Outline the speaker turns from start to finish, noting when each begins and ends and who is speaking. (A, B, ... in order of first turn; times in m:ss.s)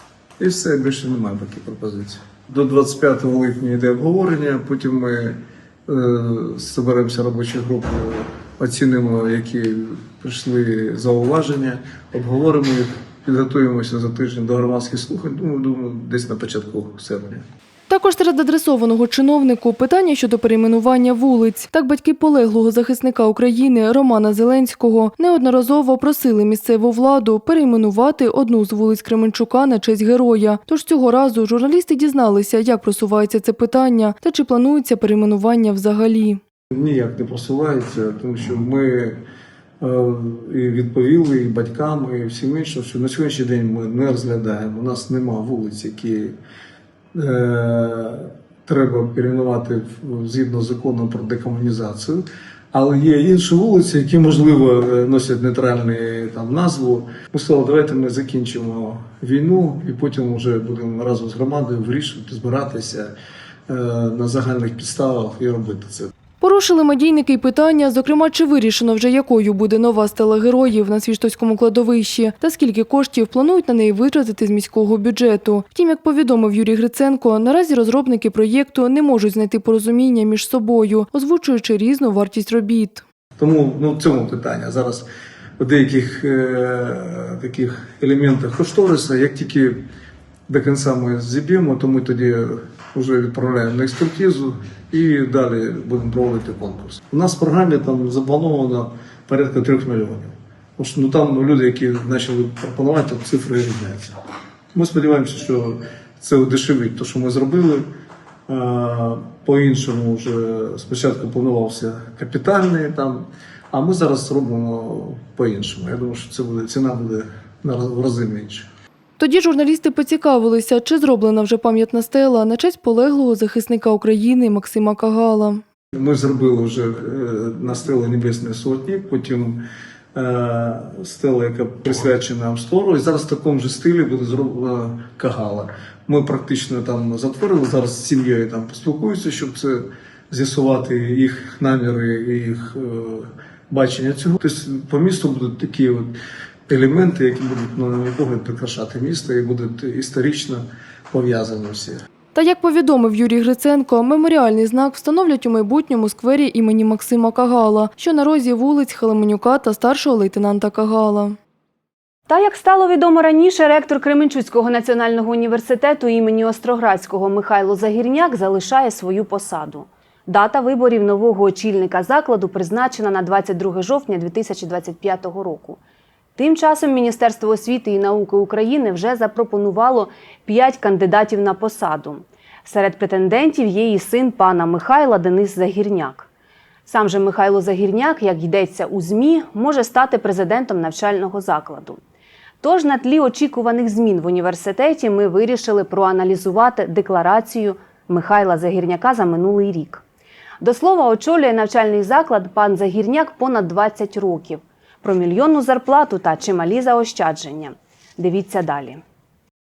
0:00.4-0:17.4 A
0:17.9-0:36.4 B
0:36.7-0:39.2 A
0:39.8-0:46.3 A
0:47.1-1:03.1 A
1:03.7-1:06.1 A
1:06.4-1:23.0 B
1:23.4-1:25.0 A
1:25.6-1:29.8 A
1:30.5-1:44.2 A
1:44.7-1:47.8 A
1:48.5-1:58.7 A
1:59.2-2:05.6 B
2:05.9-2:09.6 A
2:10.1-2:26.1 A
2:26.7-2:32.0 A
2:32.3-2:41.4 B
2:42.3-2:55.8 C
2:56.4-3:06.3 C
3:06.9-3:12.0 C
3:12.6-3:20.0 C
3:20.6-3:29.0 C